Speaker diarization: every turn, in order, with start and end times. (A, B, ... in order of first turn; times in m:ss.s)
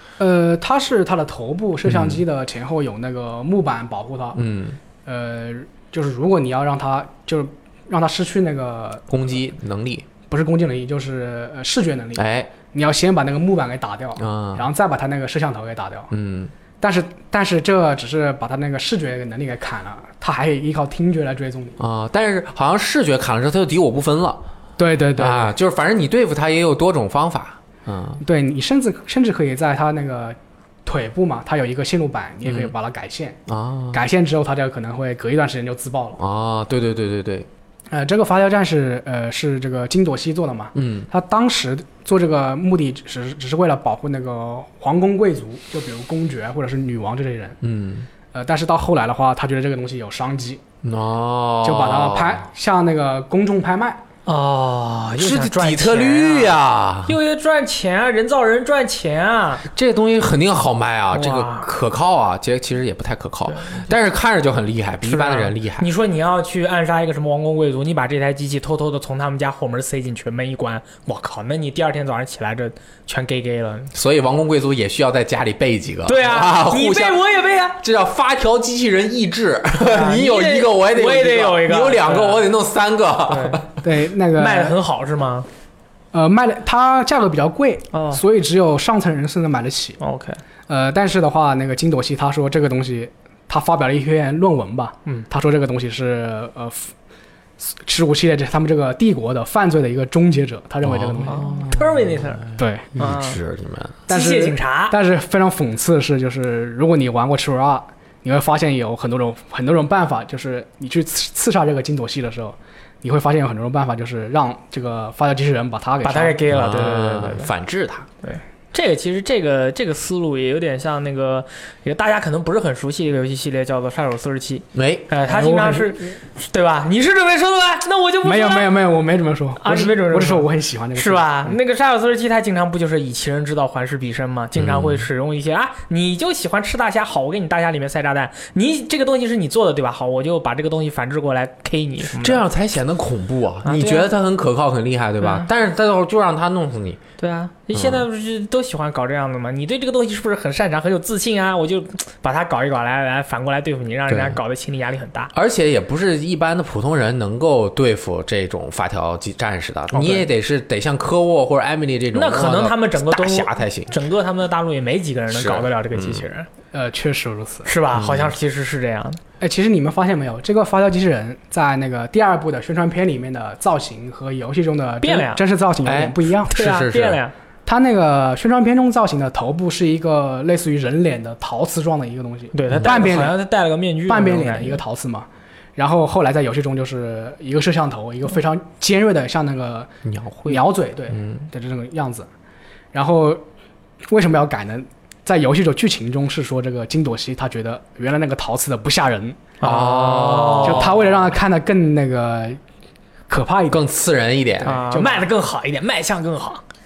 0:00.2-0:04.4 A
0:01.8-0:02.2 B
0:04.3-0:04.8 B
0:05.0-0:09.1 A
0:09.1-0:10.1 B
0:10.3-0:16.1 A
0:12.1-0:12.5 B
0:14.2-0:14.6 B
0:16.1-0:16.5 B
0:16.8-0:21.8 A
0:21.8-0:24.4 B
0:24.8-0:25.5 A
0:25.2-0:28.2 B
0:28.2-0:33.4 A
0:32.4-0:32.7 B
0:33.5-0:34.0 B
0:33.9-0:36.2 A
0:36.2-0:37.5 B
0:37.9-0:47.6 A
0:40.7-0:41.1 B
0:47.6-0:48.1 B
0:48.3-0:50.6 A
0:50.8-0:52.4 B
0:51.6-0:54.0 A
0:54.2-0:59.6 C
0:55.2-0:57.2 B
0:59.6-1:05.9 B
1:01.1-1:01.7 C
1:03.5-1:03.8 C
1:05.0-1:13.9 C
1:13.9-1:17.2 B
1:16.0-1:17.8 C
1:17.8-1:23.8 B
1:19.8-1:22.4 C
1:23.3-1:23.6 C
1:23.8-1:24.8 A
1:24.4-1:25.5 C
1:26.1-1:30.0 A
1:27.9-1:28.2 C
1:30.0-1:30.4 C
1:30.7-1:36.9 A
1:37.6-1:41.5 A
1:40.8-1:44.0 B
1:41.3-1:43.4 C
1:42.6-1:42.9 A
1:44.1-1:45.0 C
1:44.1-1:56.4 A
1:56.0-1:57.5 C
1:56.5-1:58.1 B
1:58.2-2:08.7 C
2:04.7-2:05.1 B
2:05.2-2:06.1 A
2:08.2-2:11.5 A
2:09.6-2:22.4 C
2:14.6-2:15.0 B
2:22.1-2:27.0 B
2:23.6-2:24.1 C
2:25.2-2:25.5 C
2:27.2-2:35.3 C
2:27.7-2:28.0 B
2:34.1-2:34.4 B
2:35.3-2:43.9 B
2:39.9-2:40.2 C
2:42.1-2:46.5 C
2:45.3-2:46.2 B
2:46.7-2:47.7 A
2:47.6-2:49.2 C
2:47.9-2:48.3 B
2:49.4-2:56.5 A
2:55.0-2:55.4 C
2:55.8-2:57.2 B
2:56.5-2:57.3 C
2:57.6-3:03.4 A
3:02.5-3:04.8 C
3:02.7-3:03.1 B
3:04.1-3:09.9 A
3:10.0-3:10.6 B
3:10.4-3:12.3 A
3:11.1-3:11.4 B
3:12.9-3:13.4 A
3:14.1-3:19.4 A
3:19.6-3:20.9 C
3:19.6-3:21.2 B
3:20.6-3:22.6 A
3:23.3-3:23.9 A
3:23.7-3:24.8 B
3:24.6-3:25.3 A
3:24.6-3:26.6 C